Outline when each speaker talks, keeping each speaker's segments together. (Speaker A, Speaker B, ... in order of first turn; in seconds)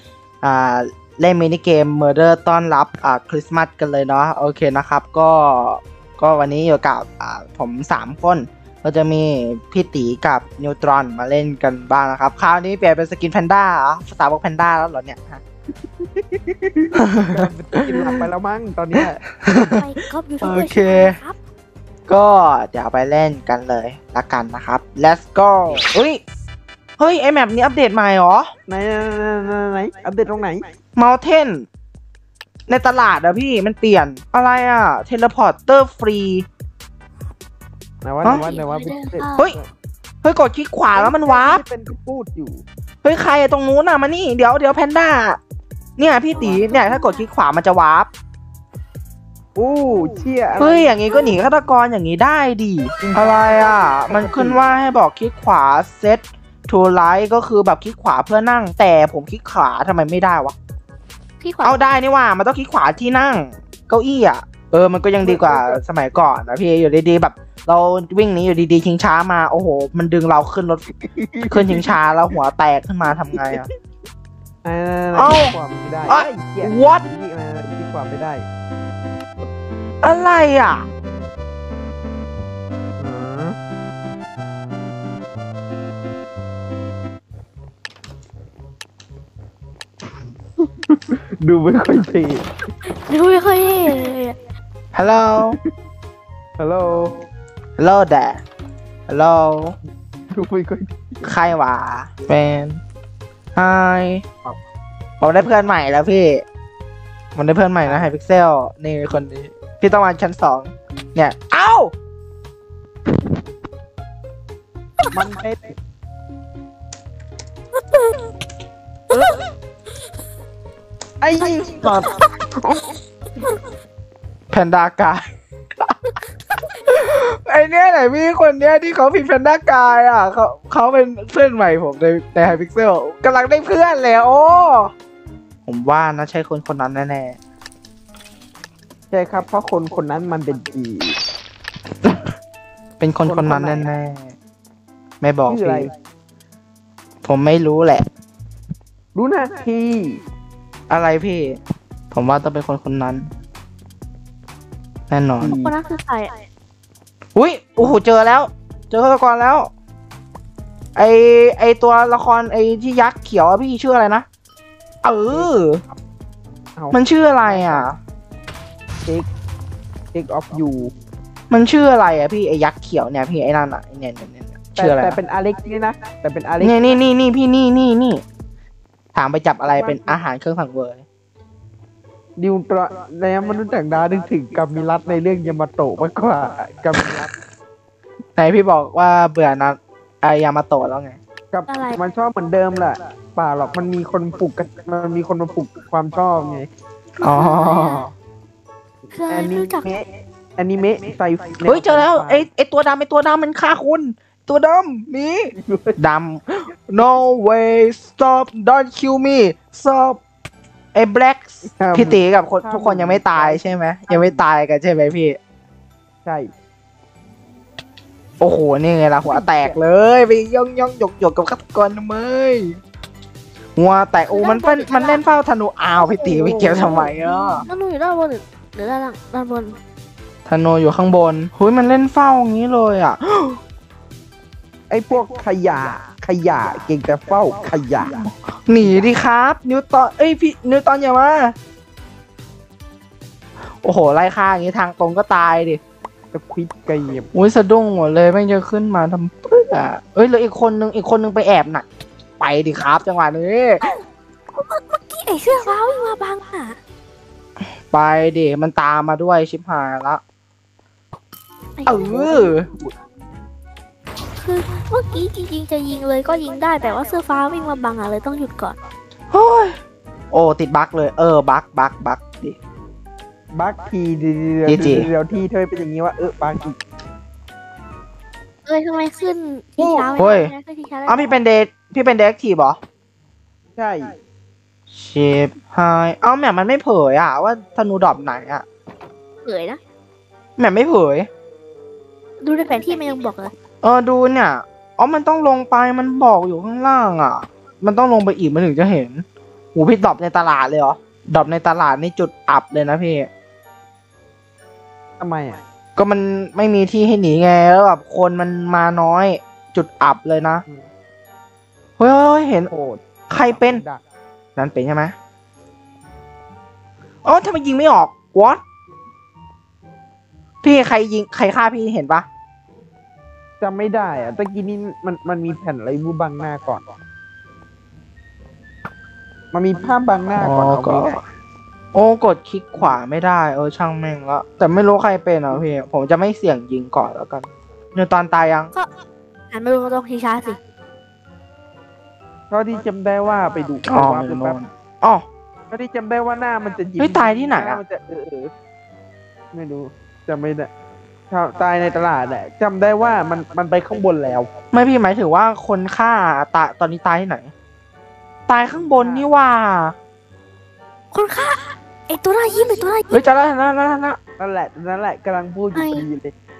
Speaker A: 0.4-15.4, 16.9-18.2, 18.9-19.8, 20.4-21.2, 22.1-26.2, 27.0-28.5, 30.9-31.7, 32.7-36.5, 40.2-41.6, 43.0-45.4, 46.0-48.1, 50.6-60.5, 61.6-70.8, 71.5-73.7, 75.1-75.5, 76.1-77.0, 80.0-80.8, 94.9-95.6, 97.8-98.4, 99.1-99.8, 101.2-102.8, 103.5-104.2, 105.2-106.4, 107.3-111.9, 124.5-125.2, 126.7-134.9, 135.7-137.4, 143.0-144.3, 145.2-145.9, 147.2-148.0, 150.9-151.6, 152.1-153.3, 155.1-155.6, 157.3-159.7, 160.9-164.2, 165.0-165.8, 166.9-168.0, 171.5-175.2, 176.6-178.2, 179.1-181.0, 188.4-191.2, 197.2-198.1, 201.6-210.2, 210.9-215.4, 218.4-222.8, 223.8-227.7, 230.4-233.6, 238.2-241.5, 243.8-245.8, 247.3-251.8, 252.4-253.8, 257.9-260.2, 261.9-262.6, 269.3-269.8, 270.3-272.6, 274.6-275.1, 280.2-280.5, 281.1-282.8, 284.9-288.6, 290.6-291.3, 293.8-303.3, 305.9-310.6, 312.0-312.7, 313.3-313.8, 314.6-315.1, 317.2-318.6, 320.6-322.2, 330.4-331.2, 331.9-338.7, 343.9-345.2, 347.0-347.8, 354.7-357.5, 358.5-359.9, 363.1-364.2
Speaker B: 16.0-19.2, 28.7-30.7, 38.0-39.7, 40.9-42.6, 46.3-46.6, 49.5-50.9, 53.0-54.6, 65.2-65.8, 71.0-72.0, 73.3-73.6, 74.6-78.4, 83.0-83.6, 90.6-92.4, 96.6-97.1, 100.3-101.2, 107.8-108.1, 115.1-115.7, 121.2-122.8, 139.1-141.2, 143.2-143.9, 145.4-145.9, 149.1-150.2, 155.4-155.8, 165.3-165.6, 166.8-167.9, 170.1-170.9, 174.8-177.0, 179.7-180.2, 182.4-187.3, 191.5-196.7, 199.3-200.1, 200.6-202.5, 205.6-206.0, 211.8-214.4, 216.2-216.5, 219.3-219.8, 226.2-227.1, 234.9-238.2, 238.8-239.1, 246.3-247.3, 261.9-262.9, 273.5-276.8, 279.8-280.2, 283.8-284.1, 305.2-305.6, 312.7-314.0, 323.6-326.9, 329.5-331.2, 342.5-344.6, 345.7-348.5, 349.5-350.7, 351.3-354.5, 358.8-359.3, 364.4-366.3
Speaker C: 19.5-21.4, 38.2-39.5, 46.5-47.2, 61.4-61.9, 92.9-94.3, 117.9-118.2, 119.1-119.4, 155.6-156.3, 191.7-191.9, 197.2-198.1, 199.1-199.9, 224.3-225.2, 226.0-229.8, 254.5-256.8, 261.8-262.5, 264.4-268.8, 278.6-281.4, 289.4-289.8, 292.4-293.5, 339.5-340.6, 361.1-363.2, 365.7-366.1